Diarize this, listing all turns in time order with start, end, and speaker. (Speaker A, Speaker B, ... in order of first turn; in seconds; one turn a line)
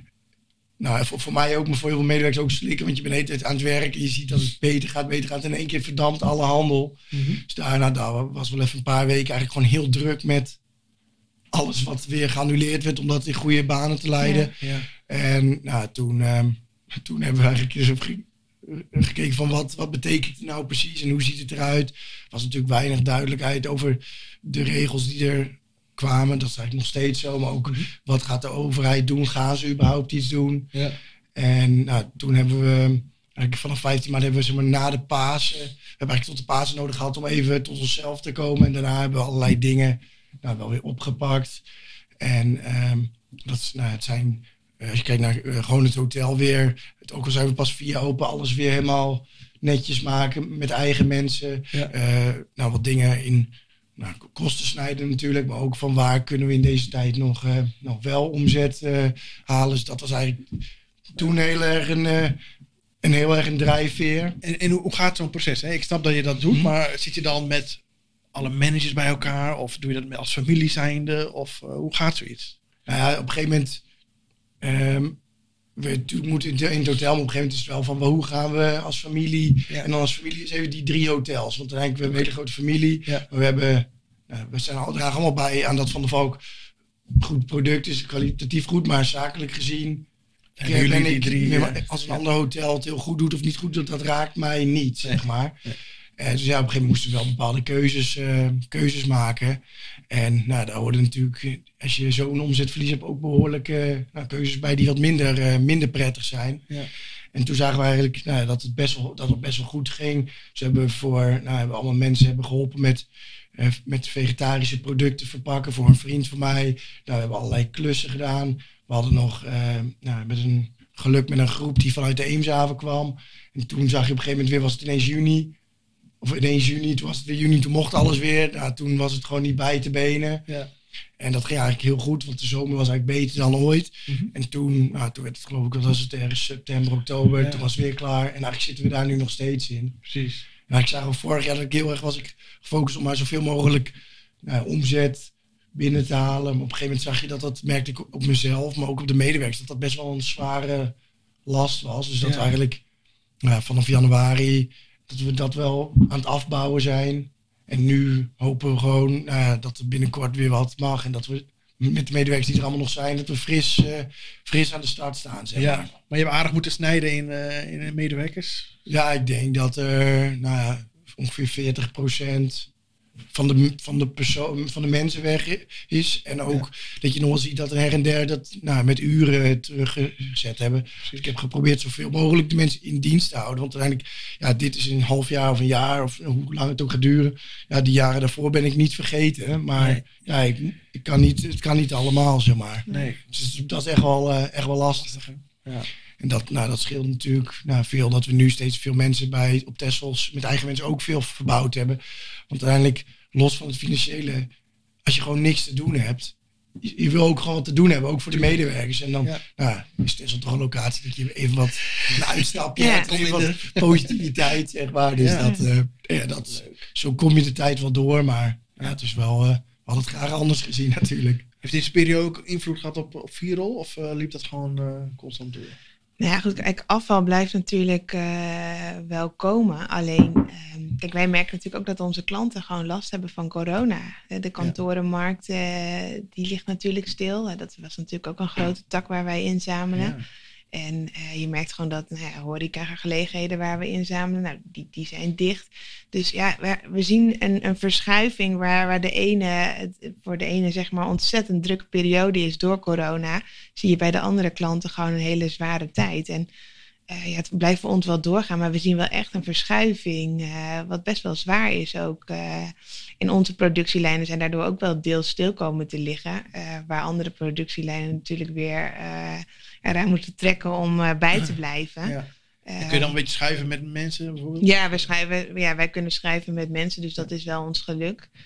Speaker A: 0.8-10.6
Speaker B: 7.1-7.4
Speaker A: 11.5-30.7
Speaker B: 14.6-14.9
Speaker A: 31.4-41.6
Speaker A: 42.2-60.6
Speaker A: 61.1-62.4
Speaker A: 63.0-64.4
Speaker B: 64.4-67.8
Speaker B: 68.3-72.6
Speaker A: 72.9-73.8
Speaker A: 74.6-75.2
Speaker A: 75.8-86.4
Speaker A: 87.2-90.1
Speaker B: 90.6-92.2
Speaker A: 90.6-95.6
Speaker B: 95.0-95.8
Speaker A: 96.2-106.7
Speaker A: 107.3-125.6
Speaker A: 126.2-130.5
Speaker A: 131.2-140.0
Speaker B: 137.4-137.7
Speaker B: 140.1-140.5
Speaker A: 140.7-150.9
Speaker A: 151.5-152.8
Speaker B: 152.2-152.5
Speaker A: 153.4-165.9
Speaker B: 165.6-168.8
Speaker A: 168.9-172.7
Speaker A: 173.3-195.2
Speaker B: 181.0-181.3
Speaker B: 189.8-190.1
Speaker B: 192.9-193.2
Speaker B: 194.9-195.9
Speaker A: 196.2-204.5
Speaker A: 205.0-221.5
Speaker B: 208.3-208.6
Speaker B: 211.8-214.3
Speaker C: 212.8-213.1
Speaker B: 215.2-215.5
Speaker B: 216.5-216.9
Speaker B: 221.6-225.8
Speaker C: 226.2-240.1
Speaker B: 239.9-240.2
Speaker C: 240.7-256.5
Speaker C: 257.1-272.1
Speaker C: 272.7-273.1
Speaker B: 272.8-275.1
Speaker C: 274.6-278.3